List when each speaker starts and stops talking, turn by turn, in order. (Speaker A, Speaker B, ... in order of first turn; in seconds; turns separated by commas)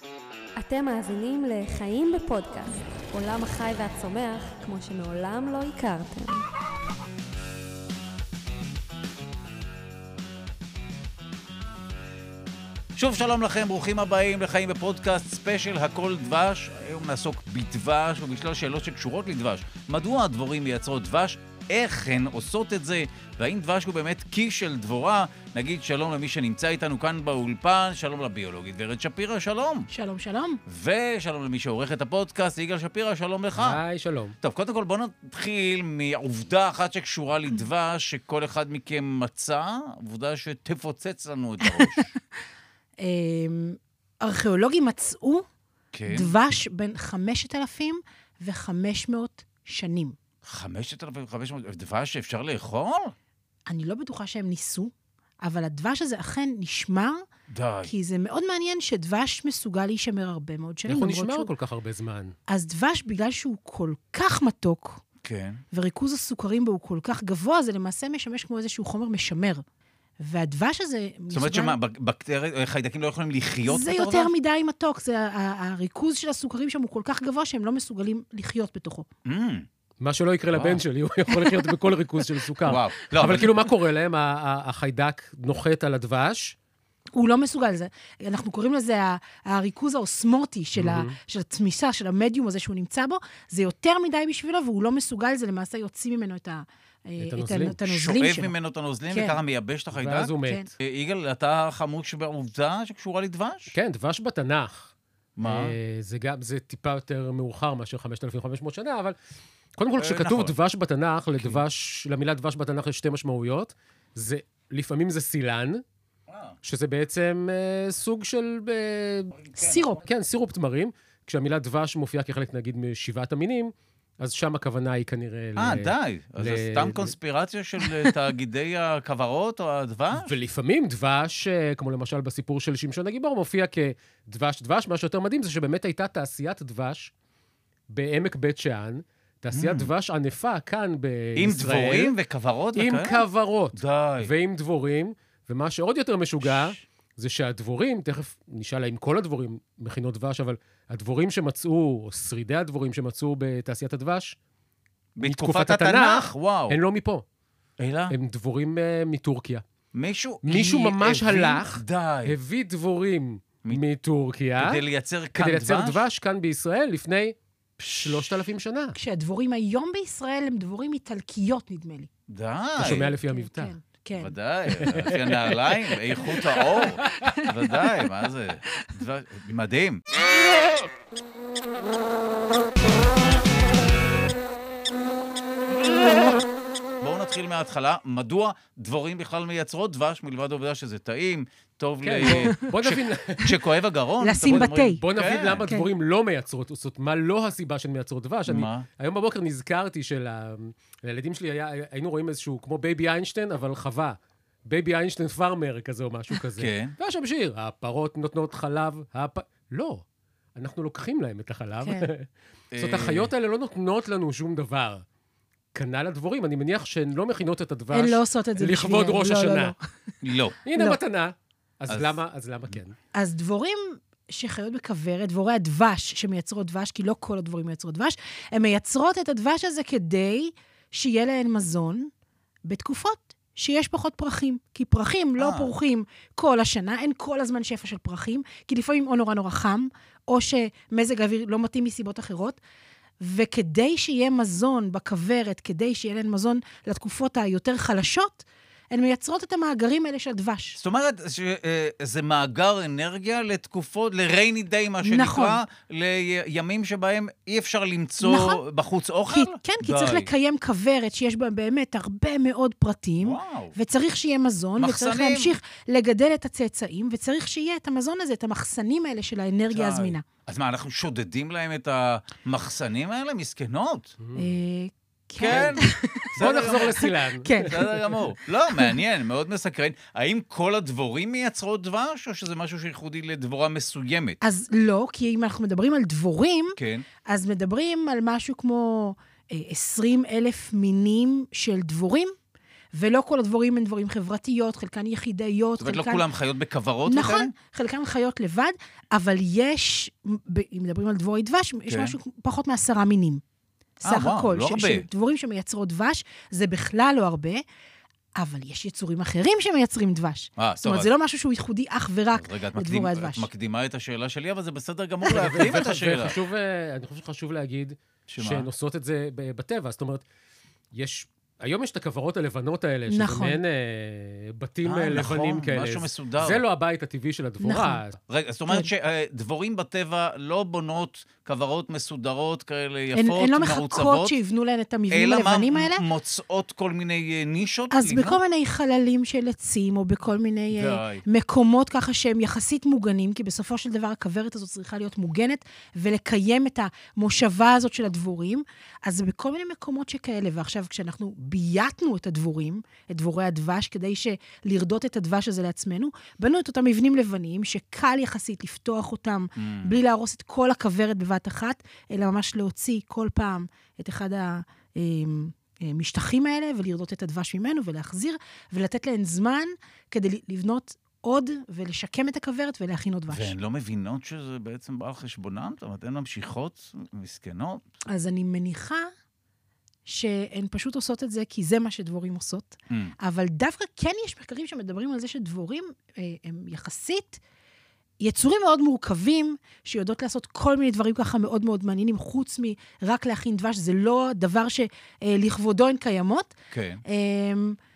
Speaker A: 0.6-6.4, Speaker B: 13.0-29.9, Speaker C: 29.9-30.6, Speaker B: 30.7-33.8, Speaker D: 33.6-34.4, Speaker B: 34.4-42.1, Speaker C: 41.7-42.1, Speaker C: 43.0-45.5, Speaker B: 45.9-46.3, Speaker C: 46.1-50.2, Speaker B: 50.5-53.1, Speaker C: 53.7-57.2, Speaker B: 57.5-57.9, Speaker C: 57.9-61.5, Speaker D: 60.9-62.3, Speaker C: 62.5-65.0, Speaker B: 65.2-65.6, Speaker C: 65.7-69.6, Speaker C: 70.2-71.8, Speaker B: 71.3-74.3, Speaker C: 73.7-79.1, Speaker B: 79.2-79.7, Speaker D: 80.0-86.6, Speaker B: 80.5-80.8, Speaker B: 82.6-83.5, Speaker C: 87.1-98.5, Speaker D: 90.8-91.1, Speaker D: 97.2-97.8, Speaker B: 97.9-103.7, Speaker C: 99.1-99.4, Speaker D: 99.9-100.7, Speaker C: 100.4-100.7, Speaker D: 103.7-104.9, Speaker B: 105.4-105.7, Speaker D: 105.4-109.2, Speaker D: 109.8-115.8, Speaker B: 110.0-110.5, Speaker D: 116.6-119.3, Speaker B: 119.4-119.9, Speaker C: 119.6-120.0, Speaker D: 120.0-127.1, Speaker B: 125.6-130.3, Speaker D: 130.1-137.1, Speaker D: 137.9-142.1, Speaker B: 139.5-139.9, Speaker B: 141.4-144.3, Speaker D: 142.8-154.4, Speaker B: 146.4-146.8, Speaker B: 155.2-156.8, Speaker D: 155.2-157.2, Speaker B: 157.8-158.1, Speaker D: 158.1-159.6, Speaker B: 159.9-162.3, Speaker D: 160.4-164.8, Speaker B: 164.6-166.0, Speaker D: 165.4-167.3, Speaker B: 167.8-168.3, Speaker D: 167.9-169.0, Speaker C: 168.9-172.1, Speaker B: 172.3-173.1, Speaker D: 172.8-173.7, Speaker C: 172.9-174.3, Speaker B: 174.2-180.0, Speaker D: 174.8-175.6, Speaker D: 177.0-177.4, Speaker B: 187.0-195.7, Speaker D: 192.0-193.6, Speaker C: 194.2-195.0, Speaker D: 194.5-204.2, Speaker B: 198.5-198.9, Speaker D: 204.7-210.0, Speaker B: 206.6-206.9, Speaker D: 210.6-215.0, Speaker C: 211.8-212.1, Speaker B: 212.7-213.3, Speaker D: 215.7-219.7, Speaker C: 217.9-219.8, Speaker B: 220.2-220.6, Speaker D: 220.6-222.9, Speaker B: 221.9-222.2, Speaker C: 223.1-232.1, Speaker C: 232.7-242.6, Speaker B: 235.4-235.7, Speaker C: 243.2-250.8, Speaker B: 250.8-260.3, Speaker C: 255.0-255.6, Speaker C: 258.2-258.6, Speaker C: 259.3-270.2, Speaker B: 263.2-263.8, Speaker B: 264.8-265.5, Speaker B: 269.7-274.2, Speaker D: 274.2-274.5, Speaker C: 274.4-277.9, Speaker B: 275.4-277.0, Speaker D: 275.5-275.8, Speaker D: 276.4-278.2, Speaker B: 277.6-284.4, Speaker C: 284.4-292.4, Speaker B: 286.8-287.1, Speaker C: 292.9-296.2, Speaker B: 295.8-297.5, Speaker C: 297.1-303.4, Speaker B: 301.9-302.2, Speaker C: 304.0-307.6, Speaker B: 304.0-305.1, Speaker C: 308.4-313.5, Speaker B: 310.6-311.1, Speaker B: 312.4-316.4, Speaker D: 315.3-320.2, Speaker B: 318.3-318.7, Speaker D: 320.9-328.2, Speaker C: 323.1-323.6, Speaker B: 324.9-326.6, Speaker C: 327.6-328.0, Speaker B: 328.3-334.4, Speaker C: 333.1-336.1, Speaker B: 335.1-338.4, Speaker C: 337.9-373.6, Speaker B: 340.7-341.2, Speaker B: 359.6-360.0, Speaker B: 373.3-377.8, Speaker C: 378.1-379.1, Speaker C: 380.1-387.4, Speaker C: 388.2-396.5, Speaker B: 396.7-397.0, Speaker C: 397.1-397.8